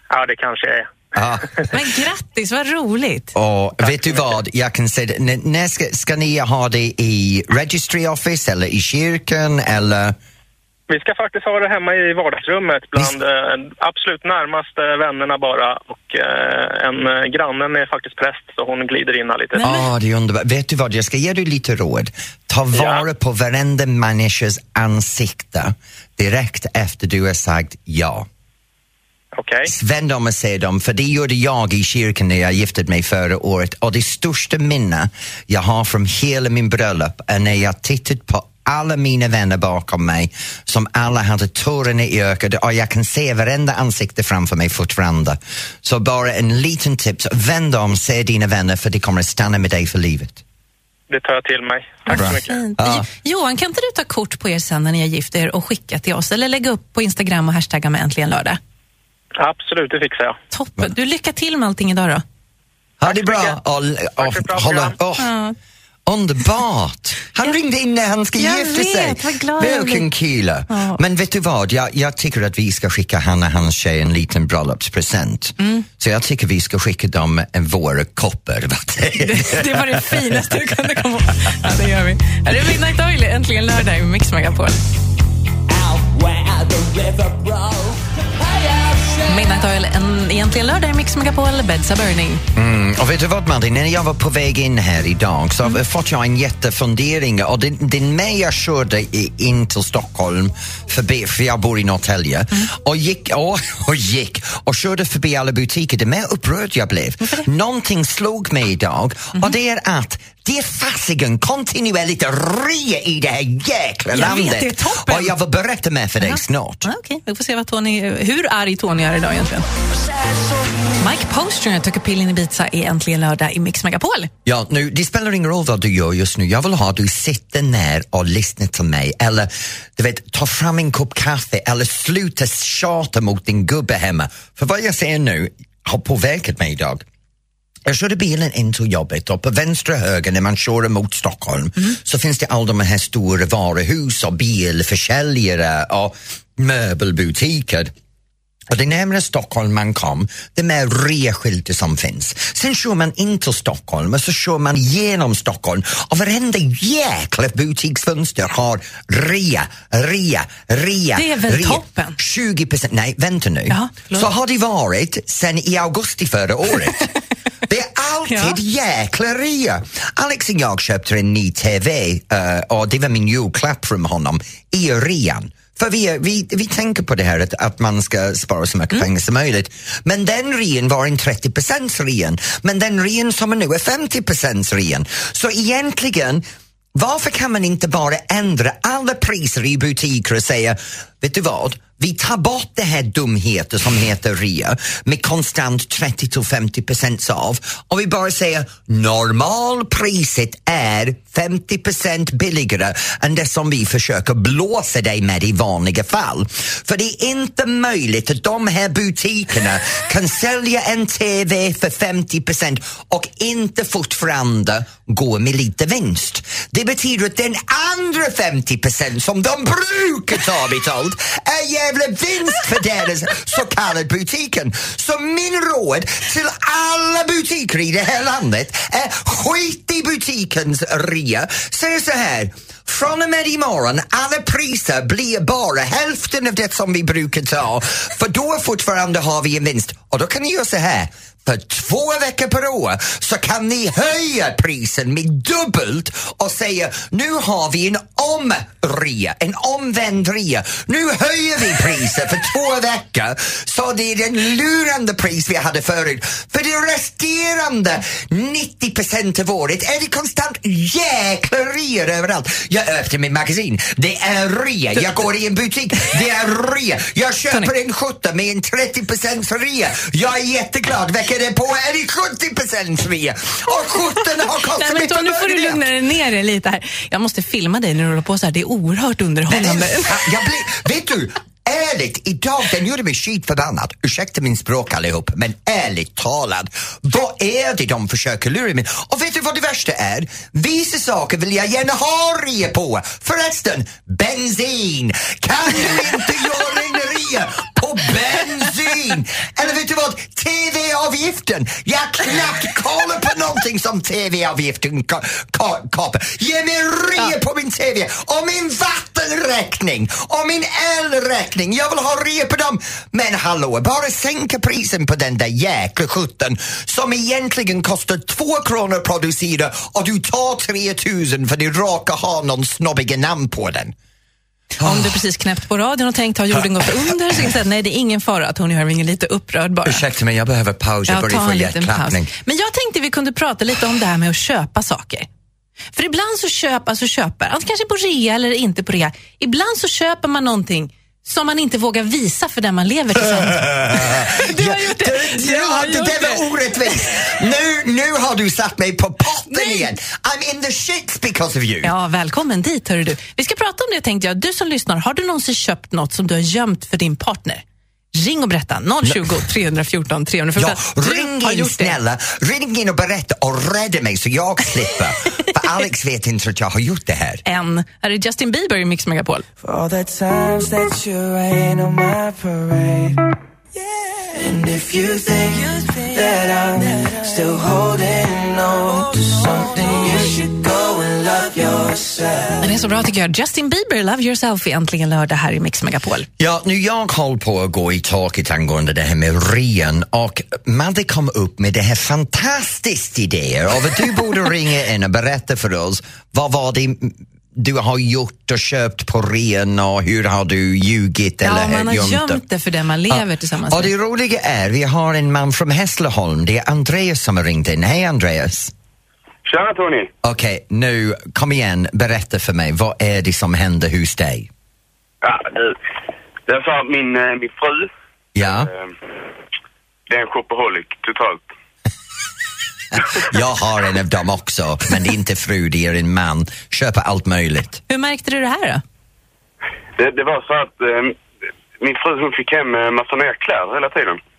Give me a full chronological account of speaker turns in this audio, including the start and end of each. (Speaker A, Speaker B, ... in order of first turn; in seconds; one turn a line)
Speaker A: 0.1-1.1
Speaker B: 1.1-1.7
Speaker C: 1.7-3.3
Speaker B: 3.3-10.2
Speaker A: 10.9-19.6
Speaker C: 19.5-19.9
Speaker B: 19.6-28.3
Speaker A: 22.8-23.0
Speaker A: 29.4-29.7
Speaker B: 29.6-50.4
Speaker A: 51.1-52.5
Speaker C: 52.1-58.6
Speaker B: 52.1-53.0
Speaker A: 59.4-60.4
Speaker C: 60.5-62.2
Speaker B: 63.0-65.3
Speaker A: 63.0-63.6
Speaker A: 64.2-64.9
Speaker C: 65.2-65.5
Speaker B: 66.0-80.4
Speaker C: 68.3-70.1
Speaker C: 70.7-71.0
Speaker C: 75.6-75.8
Speaker C: 79.2-84.8
Speaker D: 85.8-87.9
Speaker D: 88.7-89.1
Speaker C: 89.3-92.4
Speaker B: 92.5-116.9
Speaker C: 114.1-115.3
Speaker C: 116.2-119.7
Speaker C: 121.0-124.3
Speaker B: 124.4-137.0
Speaker B: 137.8-147.9
Speaker B: 148.7-167.1
Speaker C: 161.1-162.2
Speaker C: 163.7-164.3
Speaker B: 167.7-186.4
Speaker C: 168.3-168.6
Speaker B: 186.9-275.8
Speaker C: 274.8-280.2
Speaker B: 279.5-323.9
Speaker B: 324.8-325.2
Speaker C: 324.8-330.0
Speaker B: 326.5-327.4
Speaker B: 329.8-332.3
Speaker C: 331.1-335.3
Speaker C: 335.9-346.5
Speaker B: 343.4-351.9
Speaker C: 349.5-349.9
Speaker C: 351.8-362.0
Speaker B: 360.6-367.4
Speaker C: 367.4-369.4
Speaker D: 369.6-373.2
Speaker D: 373.9-382.6
Speaker C: 382.6-386.3
Speaker B: 386.4-402.4
Speaker C: 401.4-403.9
Speaker B: 403.1-408.7
Speaker E: 409.4-410.1
Speaker B: 410.2-414.5
Speaker E: 415.2-415.8
Speaker E: 416.5-417.9
Speaker B: 418.3-418.7
Speaker E: 418.4-418.9
Speaker E: 420.1-421.4
Speaker B: 423.1-427.8
Speaker C: 427.9-428.8
Speaker E: 430.0-431.2
Speaker E: 431.8-434.2